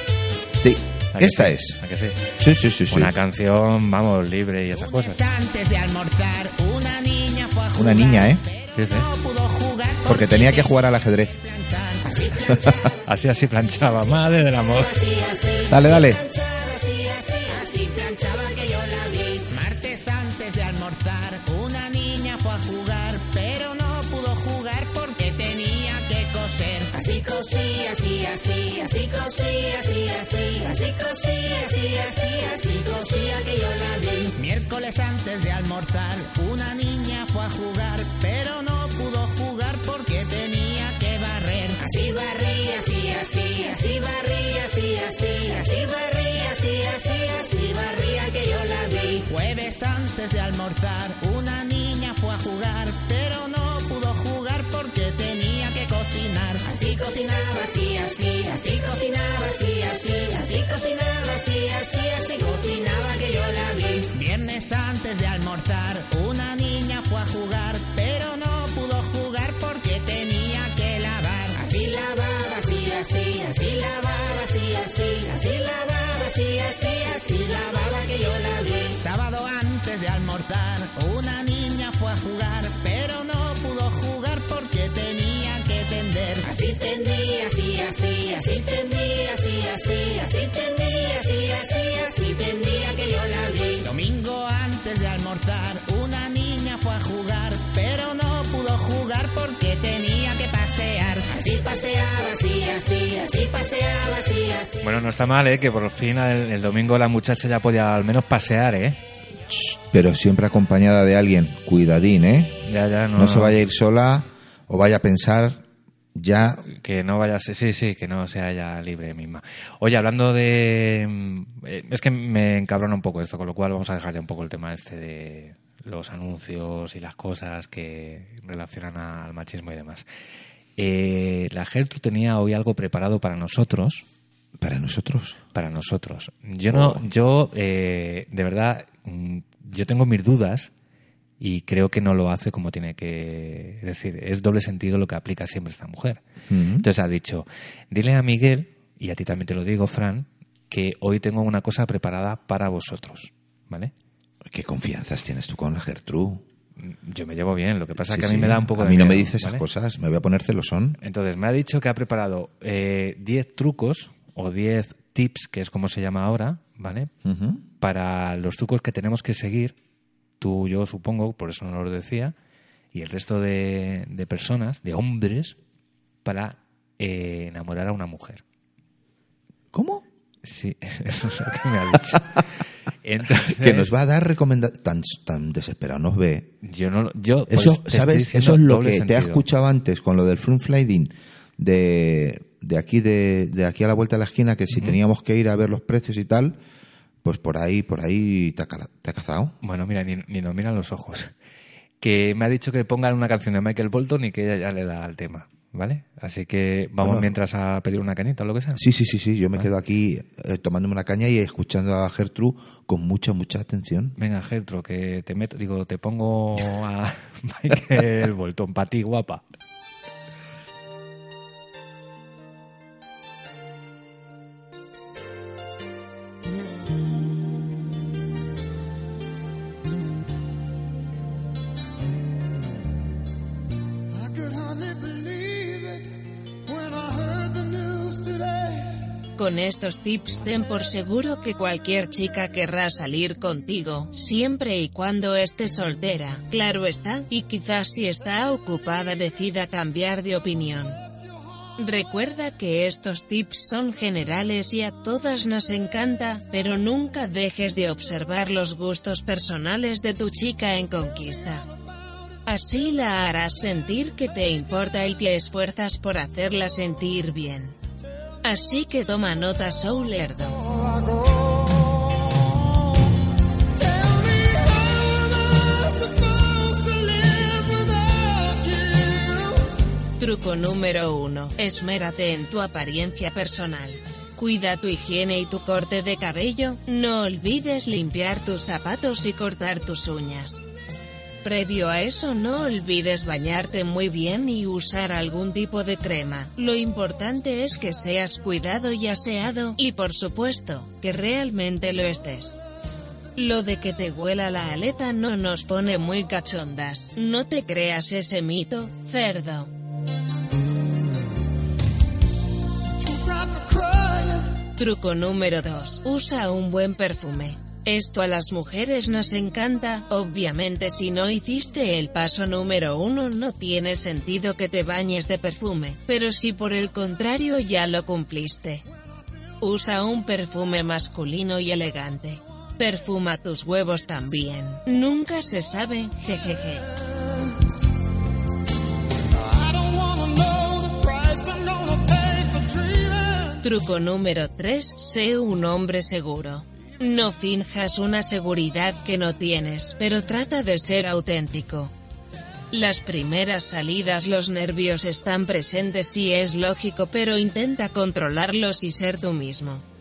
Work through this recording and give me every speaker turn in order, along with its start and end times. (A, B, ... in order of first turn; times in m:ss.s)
0:00.5-0:01.8 A
0:01.1-0:02.2 B
0:02.4-0:03.1 A
0:02.9-0:05.2 B
0:04.7-0:10.8 C
0:07.7-0:08.4 A
0:08.7-0:09.1 B
0:10.0-0:11.4 A
0:11.3-0:13.0 C
0:13.0-0:15.0 B
0:14.7-1:44.8 C
0:15.7-0:16.2 A
1:44.8-1:49.0 B
1:49.5-1:52.6 A
1:52.6-1:53.6 B
1:53.1-1:56.6 A
1:56.6-2:10.0 B
2:10.8-2:14.0 B
2:14.6-2:15.4 A
2:15.5-2:20.7 B
2:16.7-2:17.1 A
2:21.4-2:26.2 B
2:26.5-2:26.9 A
2:26.8-2:33.9 B
2:34.4-2:36.4 A
2:36.8-2:39.6 B
2:38.0-2:41.0 A
2:41.0-2:47.1 B
2:47.2-2:47.6 A
2:47.8-2:49.8 B
2:50.4-2:52.3 B
2:52.9-2:55.6 B
2:56.2-2:58.4 B
2:59.7-3:00.0 A
3:00.4-3:02.4 B
3:03.0-3:03.9 B
3:03.5-3:06.5 A
3:06.6-3:09.4 B
3:07.5-3:16.6 A
3:14.7-3:15.0 B
3:17.2-3:19.6 A
3:19.6-3:21.3 B
3:22.0-3:28.8 B
3:27.0-3:27.3 A
3:28.8-3:34.2 A
3:34.2-3:39.4 B
3:54.1-3:59.0 D
3:59.4-4:11.0 E
4:11.8-4:21.6 E
4:22.4-4:27.7 E
4:28.4-4:30.6 E
4:30.9-4:32.4 D
4:33.8-4:39.6 D
4:40.2-4:50.6 E
4:51.4-5:02.6 E
5:03.4-5:09.7 E
5:13.0-5:14.6 D
5:14.8-5:28.8 E
5:29.6-5:36.8 E
5:39.3-5:43.6 D
5:43.6-5:51.9 E
5:52.7-5:59.8 E